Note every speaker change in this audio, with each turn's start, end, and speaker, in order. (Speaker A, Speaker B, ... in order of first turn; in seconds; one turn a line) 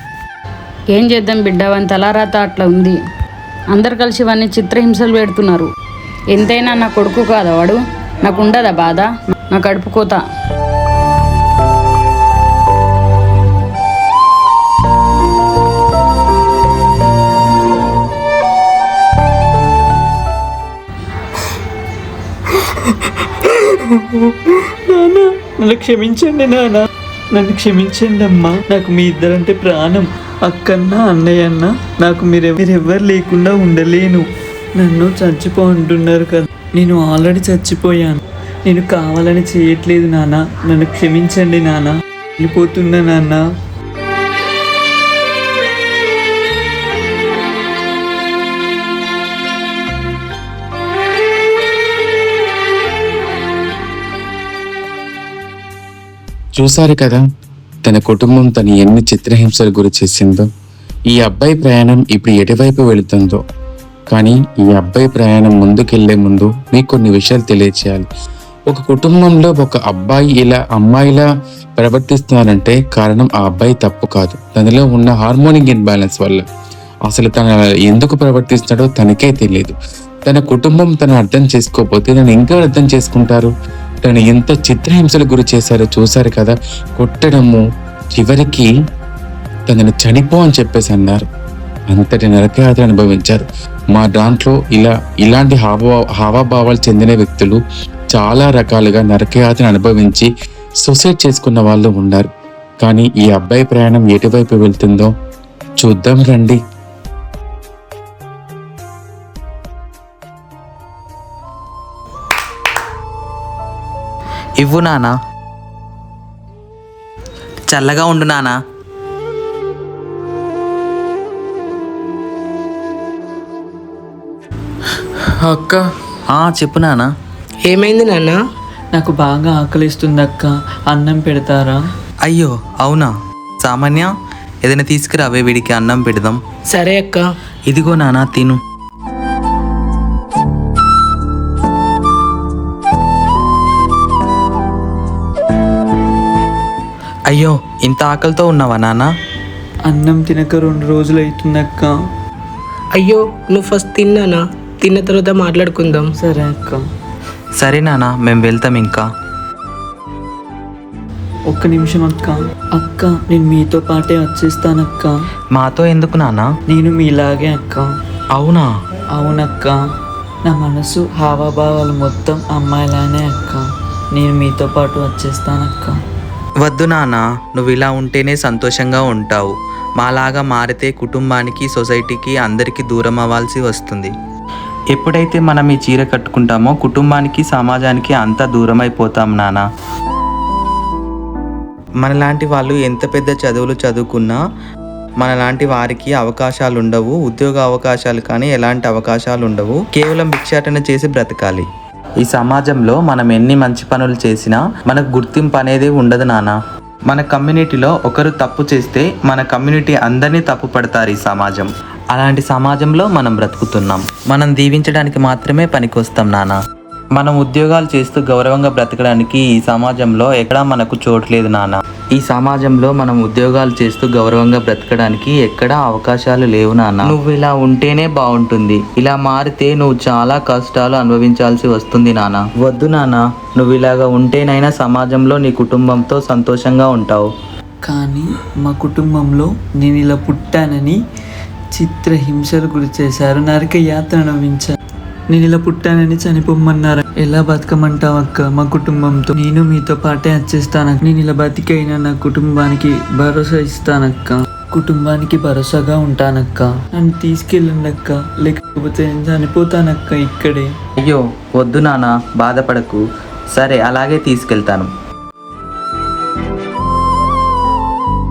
Speaker A: 0.9-3.0
Speaker A: 3.7-5.7
Speaker A: 6.3-10.2
Speaker B: 22.5-43.4
Speaker C: 56.5-57.2
Speaker C: 57.8-60.5
Speaker C: 61.1-63.4
Speaker C: 64.1-68.1
Speaker C: 68.7-76.4
Speaker C: 77.1-79.7
Speaker C: 80.2-83.5
Speaker C: 84.0-87.6
Speaker C: 88.1-88.7
Speaker C: 89.7-91.2
Speaker C: 91.9-97.6
Speaker C: 98.1-100.3
Speaker C: 100.8-102.3
Speaker C: 102.8-105.1
Speaker C: 105.8-106.6
Speaker D: 114.6-115.2
Speaker D: 117.7-118.5
Speaker C: 125.4-125.8
Speaker D: 126.3-127.1
Speaker E: 127.6-128.4
Speaker B: 128.9-131.8
Speaker D: 132.3-133.1
Speaker D: 133.6-134.1
Speaker D: 134.6-136.4
Speaker E: 136.7-137.2
Speaker D: 137.7-138.6
Speaker D: 147.3-149.1
Speaker B: 149.8-151.9
Speaker E: 152.9-156.1
Speaker B: 156.2-156.8
Speaker D: 157.6-159.1
Speaker B: 161.5-165.1
Speaker D: 165.5-166.5
Speaker B: 166.7-167.9
Speaker D: 168.3-168.7
Speaker B: 169.1-169.8
Speaker B: 170.4-176.0
Speaker D: 176.6-184.1
Speaker D: 184.9-189.6
Speaker D: 192.0-194.4
Speaker D: 195.2-201.7
Speaker D: 202.2-206.5
Speaker D: 207.1-216.6
Speaker D: 217.2-237.3
Speaker B: 237.8-241.0
Speaker B: 241.7-244.8
Speaker B: 245.3-260.7
Speaker D: 261.0-263.0
Speaker D: 263.5-264.9